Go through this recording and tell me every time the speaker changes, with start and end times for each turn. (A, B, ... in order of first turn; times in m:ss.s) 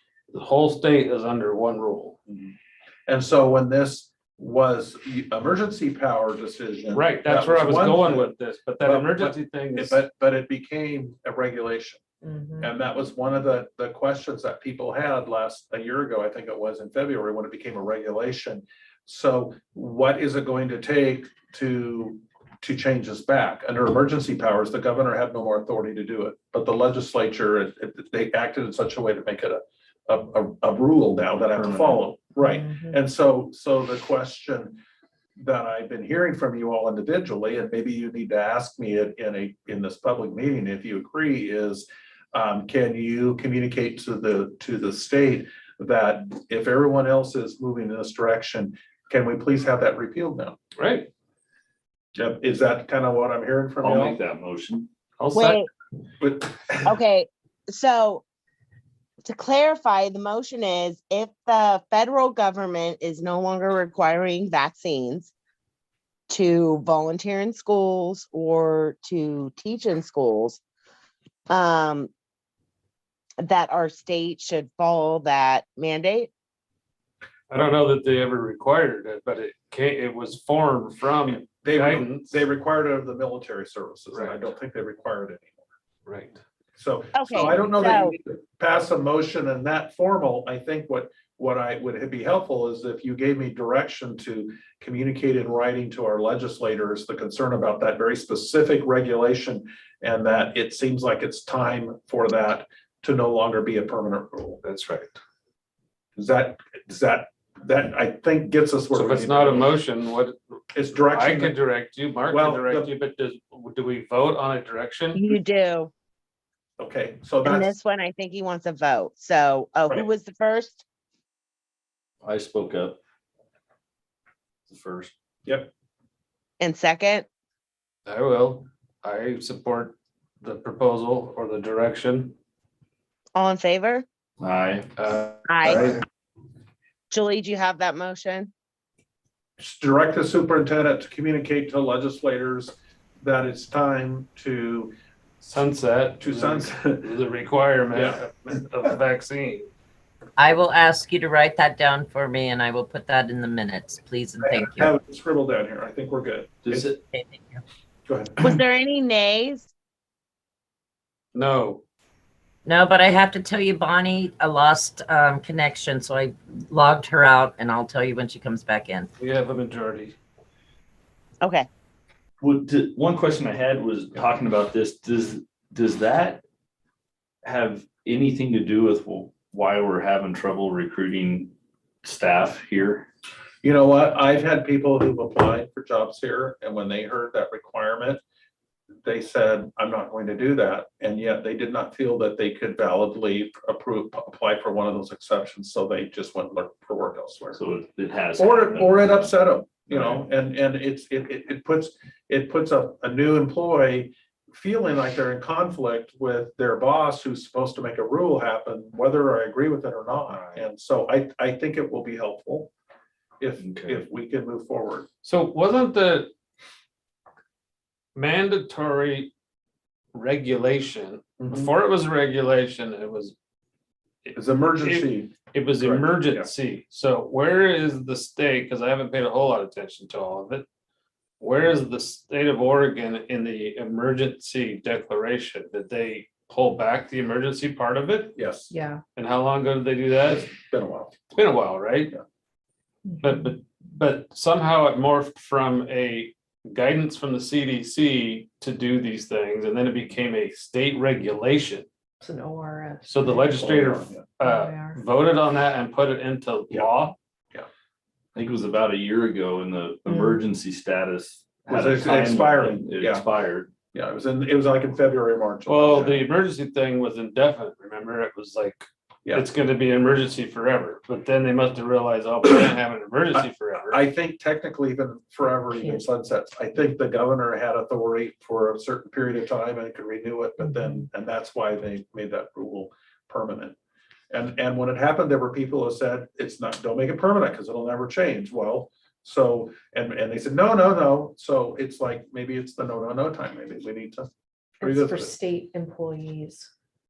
0:00.3-0:02.2 A
0:02.3-0:02.5 B
0:03.1-0:08.3 B
0:06.9-0:10.0 A
0:08.8-0:12.0 B
0:12.2-0:12.7 C
0:12.6-0:34.8 B
0:31.5-0:32.0 D
0:32.4-0:33.0 C
0:35.4-0:50.6 B
0:50.8-0:51.1 A
0:52.2-0:54.2 B
0:53.8-0:54.9 D
0:55.2-0:55.6 A
0:55.3-0:55.7 E
0:56.2-0:56.9 B
0:56.8-0:58.2 E
0:59.2-1:05.3 E
1:06.3-1:10.6 E
1:11.5-1:12.1 E
1:13.4-1:16.3 E
1:17.5-1:22.4 A
1:21.3-1:25.6 B
1:24.1-1:24.5 A
1:26.0-1:26.4 A
1:26.8-1:44.6 B
1:27.1-1:28.2 E
1:44.6-1:45.2 A
1:46.2-1:49.7 B
1:48.9-1:50.3 A
1:50.7-1:51.6 B
1:51.0-1:55.2 A
1:52.3-1:52.9 B
1:55.1-1:55.9 E
1:56.8-1:57.7 B
1:57.4-2:00.8 E
2:02.2-2:03.0 D
2:04.7-2:05.1 D
2:06.6-2:07.3 E
2:08.0-2:12.3 A
2:13.4-2:14.0 E
2:14.4-2:14.9 D
2:15.0-2:16.0 A
2:15.4-2:15.9 E
2:17.1-2:18.5 E
2:19.6-2:24.9 B
2:25.4-2:29.7 A
2:26.2-2:27.1 B
2:27.9-2:28.2 B
2:30.4-2:34.9 F
2:34.4-2:36.9 B
2:36.6-2:37.0 D
2:37.1-2:37.6 F
2:38.1-2:38.4 B
2:38.4-2:39.7 E
2:41.3-2:41.8 A
2:42.6-2:49.1 F
2:49.2-2:50.2 A
2:51.4-2:51.7 E
2:52.4-2:56.4 D
2:57.4-3:01.5 D
3:02.0-3:03.1 D
3:03.6-3:08.2 B
3:09.0-3:17.6 B
3:17.5-3:20.3 D
3:18.4-3:32.7 B
3:30.3-3:30.6 D
3:33.4-3:35.1 B
3:33.6-3:34.0 D
3:35.2-3:36.3 A
3:38.1-3:39.3 A
3:40.1-3:43.4 A
3:41.4-3:41.7 B
3:44.2-3:50.6 A
3:44.3-3:46.5 B
3:51.4-3:58.4 A
3:58.3-3:58.7 B
3:58.7-3:59.0 C
3:59.1-4:00.5 A
4:00.3-4:01.2 B
4:01.3-4:02.1 A
4:03.0-4:03.5 C
4:03.2-4:11.9 A
4:12.2-4:13.8 C
4:13.0-4:17.2 A
4:13.6-4:14.3 B
4:14.4-4:15.0 C
4:18.3-4:23.7 D
4:20.1-4:20.4 C
4:21.7-4:23.2 B
4:23.8-4:26.2 B
4:25.7-4:34.0 A
4:33.3-4:43.8 B
4:35.7-4:36.1 C
4:40.6-4:41.1 C
4:44.3-4:54.3 B
4:54.8-4:56.7 C
4:54.8-4:55.3 B